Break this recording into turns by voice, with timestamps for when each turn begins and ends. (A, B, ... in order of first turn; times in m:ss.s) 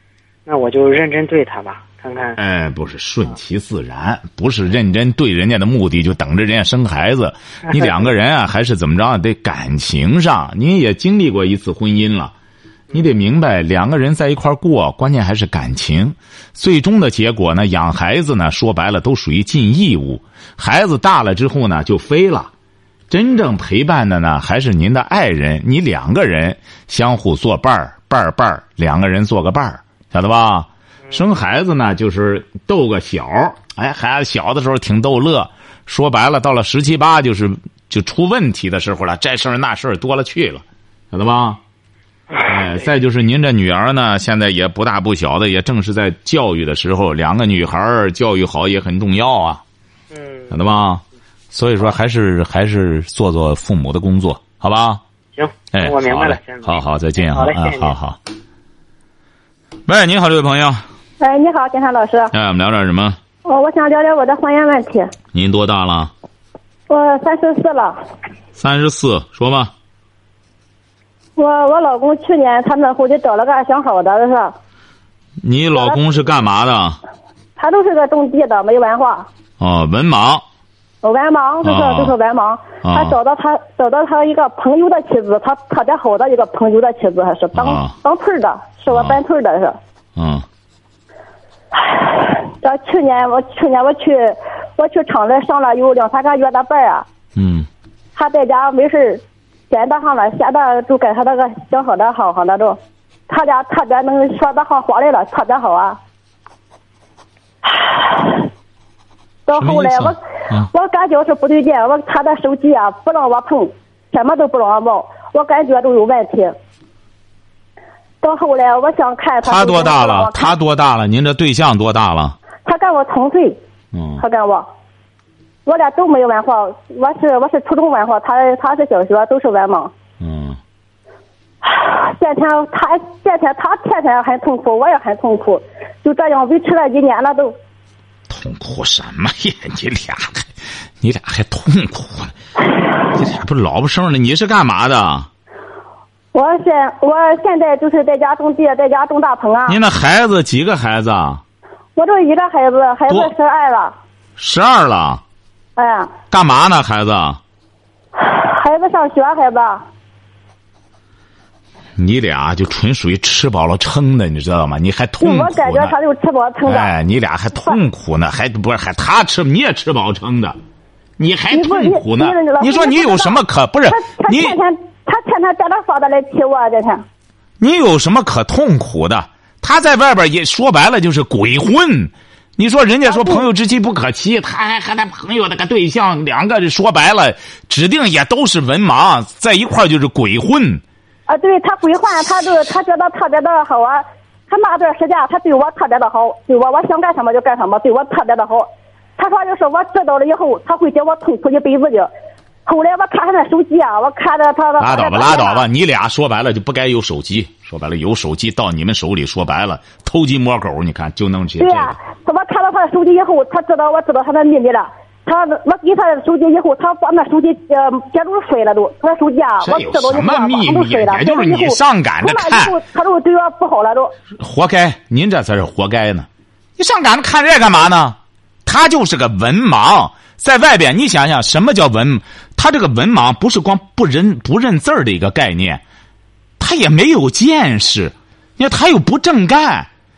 0:00.5-0:02.4 A
0:02.4-0:12.3 B
0:12.9-0:22.5 B
0:23.1-0:41.6 B
0:42.3-0:42.6 A
0:42.5-0:49.6 B
0:50.1-0:50.6 A
0:50.5-0:55.0 B
0:55.4-0:58.0 A
0:55.7-0:58.2 B
0:59.9-1:00.8 B
1:01.2-1:02.3 C
1:02.3-1:03.2 B
1:03.4-1:05.1 C
1:05.3-1:06.1 B
1:06.9-1:08.0 C
1:08.6-1:09.7 B
1:11.4-1:14.6 C
1:15.4-1:17.0 B
1:17.6-1:19.3 C
1:19.6-1:20.4 B
1:21.0-1:29.8 C
1:21.6-1:22.1 B
1:22.8-1:23.2 B
1:27.5-1:27.9 B
1:28.9-1:29.2 B
1:30.2-1:30.4 B
1:31.8-1:37.1 C
1:37.4-1:37.7 B
1:38.2-1:46.0 C
1:47.7-1:48.5 C
1:49.5-1:56.6 C
1:49.6-1:50.7 B
1:58.2-2:00.5 C
1:59.4-2:02.4 B
2:02.6-2:03.6 C
2:03.9-2:04.2 B
2:04.2-2:04.7 C
2:05.7-2:09.9 C
2:10.2-2:10.6 B
2:11.6-2:17.6 C
2:18.3-2:22.4 B
2:23.1-2:25.3 B
2:26.3-2:29.8 C
2:29.7-2:31.4 B
2:32.0-2:34.0 C
2:34.4-2:35.2 B
2:35.8-2:36.1 C
2:36.3-2:37.4 B
2:38.2-2:39.9 C
2:42.0-2:45.9 B
2:45.2-2:46.9 C
2:46.6-2:50.6 B
2:51.2-2:54.6 B
2:51.5-2:57.0 C
2:57.6-3:10.8 B
3:03.1-3:03.5 C
3:11.3-3:22.1 C
3:22.7-3:25.6 C
3:24.8-3:32.0 B
3:31.6-3:44.1 C
3:39.6-3:42.8 B
3:44.4-3:55.8 B
3:56.6-3:59.9 B